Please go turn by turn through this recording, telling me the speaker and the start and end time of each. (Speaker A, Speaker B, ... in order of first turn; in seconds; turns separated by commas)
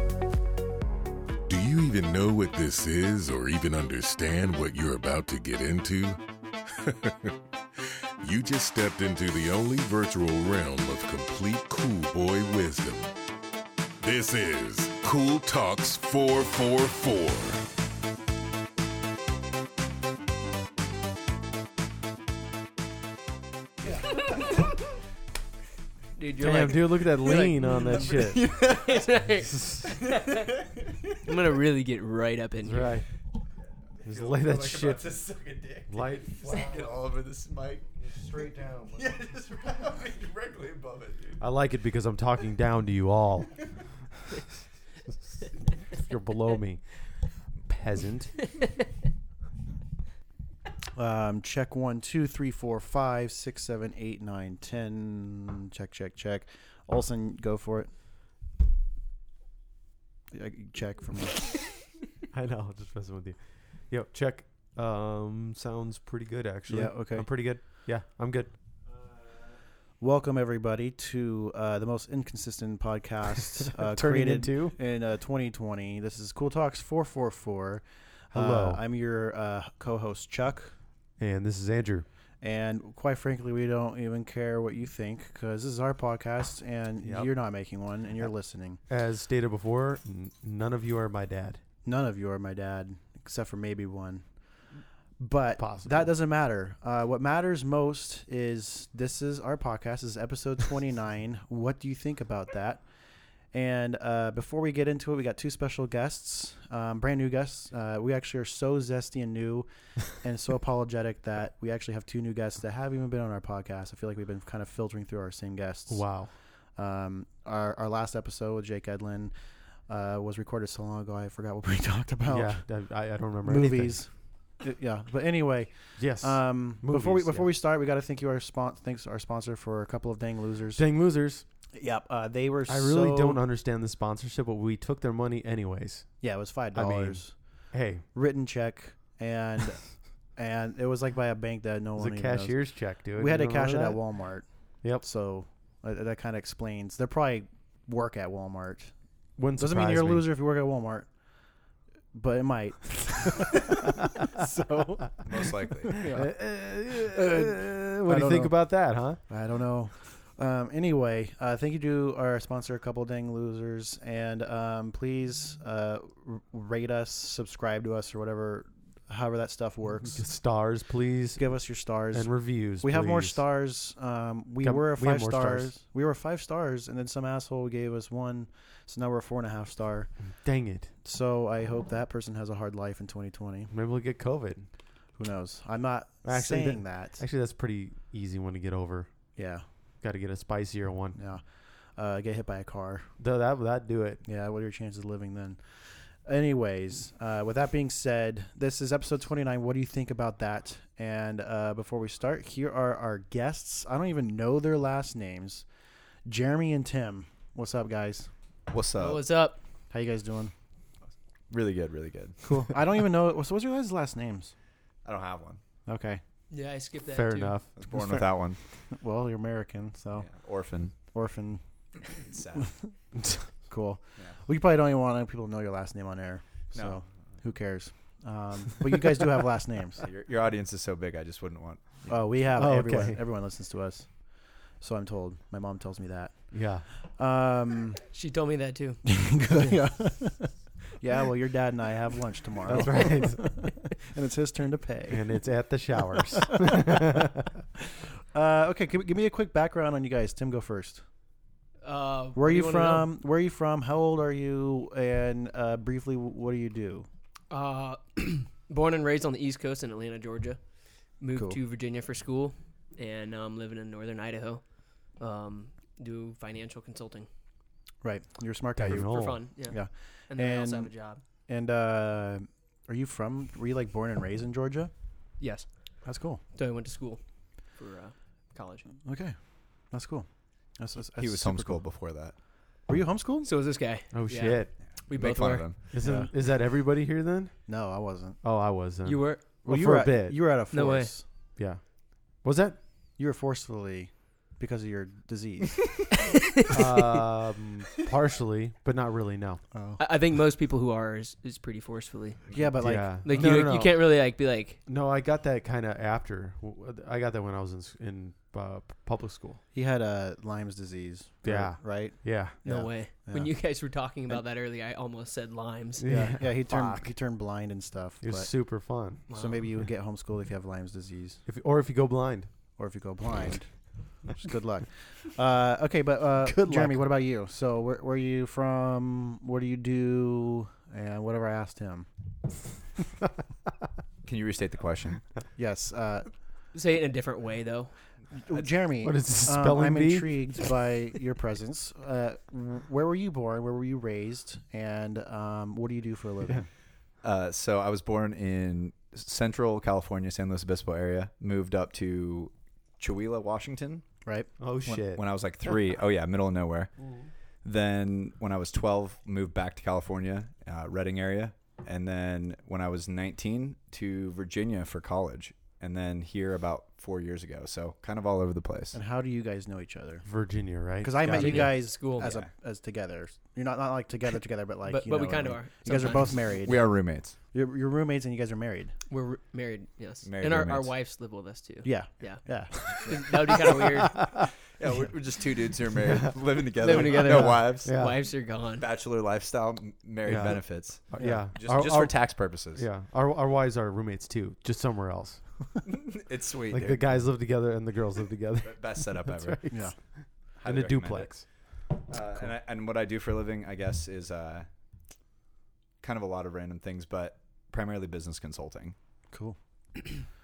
Speaker A: 1.5-13.1, Speaker A: 14.0-17.6, Speaker B: 23.9-24.4, Speaker C: 26.2-30.6, Speaker D: 26.4-28.4, Speaker B: 28.1-29.2, Speaker D: 29.4-29.9, Speaker B: 29.9-31.4, Speaker C: 31.2-33.0, Speaker D: 32.6-33.1, Speaker B: 34.0-41.4, Speaker D: 34.1-35.1, Speaker D: 35.9-36.8, Speaker D: 38.0-39.0, Speaker D: 41.4-43.5, Speaker D: 45.9-46.8, Speaker D: 47.7-48.4, Speaker C: 48.5-48.8, Speaker E: 51.0-57.9, Speaker E: 60.3-61.6, Speaker D: 62.3-68.5, Speaker E: 66.7-67.5, Speaker E: 70.0-80.7, Speaker D: 73.8-74.8, Speaker D: 78.3-78.8, Speaker D: 81.2-82.1, Speaker E: 82.4-88.8, Speaker D: 87.0-87.3, Speaker D: 88.9-91.6, Speaker E: 91.8-94.2, Speaker E: 95.2-102.8, Speaker D: 95.6-96.1, Speaker E: 103.5-116.2, Speaker D: 115.9-116.3, Speaker E: 116.8-119.3, Speaker E: 119.9-122.6, Speaker D: 122.3-124.0, Speaker E: 123.4-124.1, Speaker E: 124.6-130.8, Speaker D: 126.0-127.5, Speaker D: 130.8-131.4, Speaker E: 131.8-133.4, Speaker D: 132.7-136.1, Speaker E: 136.2-137.3, Speaker D: 136.8-137.2, Speaker D: 137.7-138.0, Speaker E: 138.1-139.8, Speaker E: 140.4-148.9, Speaker D: 142.0-144.0, Speaker D: 149.4-150.3, Speaker E: 149.6-151.1, Speaker E: 152.1-156.3, Speaker D: 154.2-154.5, Speaker B: 155.2-156.1, Speaker D: 155.9-159.2, Speaker E: 156.9-158.6, Speaker E: 159.3-170.2, Speaker D: 170.1-171.4, Speaker E: 171.4-180.1, Speaker D: 172.1-173.4, Speaker D: 174.6-175.7, Speaker D: 180.3-180.9, Speaker E: 181.0-183.7, Speaker D: 183.7-184.7, Speaker E: 185.2-187.2, Speaker D: 186.2-189.1, Speaker E: 189.4-189.6, Speaker D: 190.0-191.2, Speaker E: 191.2-191.4, Speaker E: 192.0-193.1, Speaker D: 193.2-194.2, Speaker E: 194.2-205.7, Speaker E: 206.3-208.3, Speaker B: 208.7-209.2, Speaker C: 209.0-209.6, Speaker E: 209.9-210.5, Speaker B: 211.5-212.5, Speaker E: 212.4-214.5, Speaker B: 215.1-215.6, Speaker E: 215.9-216.2, Speaker C: 216.5-217.6, Speaker D: 217.1-218.2, Speaker B: 217.8-218.6, Speaker E: 218.9-220.3, Speaker B: 220.2-220.9, Speaker E: 221.1-221.6, Speaker B: 222.1-222.8, Speaker E: 223.7-230.1, Speaker B: 226.7-227.0, Speaker B: 230.0-232.2, Speaker E: 232.1-234.1, Speaker D: 232.6-233.2, Speaker E: 234.8-236.6, Speaker D: 236.5-236.8, Speaker E: 237.2-238.0, Speaker C: 238.1-239.8, Speaker E: 239.1-245.2, Speaker D: 242.7-243.5, Speaker D: 245.1-247.6, Speaker E: 246.4-247.2, Speaker E: 247.8-251.0, Speaker C: 251.8-253.2, Speaker E: 252.4-257.1, Speaker C: 257.5-260.6, Speaker C: 261.2-264.6, Speaker C: 265.2-267.3, Speaker E: 268.0-270.9, Speaker D: 268.8-269.4, Speaker C: 268.9-271.2, Speaker E: 271.5-274.9, Speaker C: 275.4-275.7, Speaker E: 276.1-276.4, Speaker C: 276.6-277.2, Speaker C: 277.7-278.9, Speaker E: 279.1-279.4, Speaker E: 279.9-280.3, Speaker E: 280.8-281.8, Speaker B: 281.2-282.4, Speaker E: 282.9-283.5, Speaker C: 283.4-285.7, Speaker D: 284.1-284.7, Speaker B: 285.1-285.8, Speaker D: 285.9-287.5, Speaker E: 286.0-286.3, Speaker E: 287.7-288.4, Speaker D: 288.4-290.4, Speaker C: 289.1-289.4, Speaker E: 289.7-291.2, Speaker C: 290.7-291.1, Speaker D: 291.6-291.8, Speaker D: 292.4-292.8, Speaker E: 293.2-296.2, Speaker C: 296.2-297.2, Speaker D: 296.7-299.6, Speaker E: 299.7-300.0, Speaker C: 300.0-302.4, Speaker E: 302.5-303.2, Speaker D: 302.8-304.1, Speaker C: 303.0-304.8, Speaker D: 304.9-309.6, Speaker E: 309.7-313.5, Speaker D: 311.4-312.6, Speaker C: 312.6-316.1, Speaker D: 316.0-317.1, Speaker E: 316.1-318.5, Speaker D: 318.2-319.2, Speaker C: 319.3-319.6, Speaker E: 319.3-321.4, Speaker D: 321.5-322.5, Speaker E: 322.8-323.7, Speaker E: 324.2-332.1, Speaker D: 326.4-327.1, Speaker B: 334.2-335.2, Speaker E: 335.6-336.3, Speaker C: 336.7-337.9, Speaker E: 338.3-346.6, Speaker D: 339.0-340.4, Speaker B: 347.2-354.1, Speaker E: 354.3-354.5, Speaker D: 354.6-355.2, Speaker B: 354.9-357.0, Speaker B: 357.6-369.0, Speaker E: 368.9-370.3, Speaker D: 370.2-371.8, Speaker E: 371.0-376.9, Speaker C: 371.3-372.3, Speaker B: 372.2-372.5, Speaker C: 374.9-376.6, Speaker B: 376.6-377.4, Speaker E: 377.5-378.9, Speaker C: 379.1-384.3, Speaker B: 380.2-380.9, Speaker E: 381.8-383.0, Speaker D: 384.1-384.5, Speaker B: 384.8-388.0, Speaker C: 386.8-388.9, Speaker D: 386.9-388.2, Speaker B: 388.8-392.9, Speaker D: 390.2-395.4, Speaker E: 391.2-391.4, Speaker B: 395.8-397.2, Speaker D: 396.7-399.9, Speaker B: 398.6-399.7, Speaker B: 400.6-401.4, Speaker D: 400.6-401.4, Speaker B: 402.1-404.7, Speaker B: 406.0-409.0, Speaker E: 409.3-410.2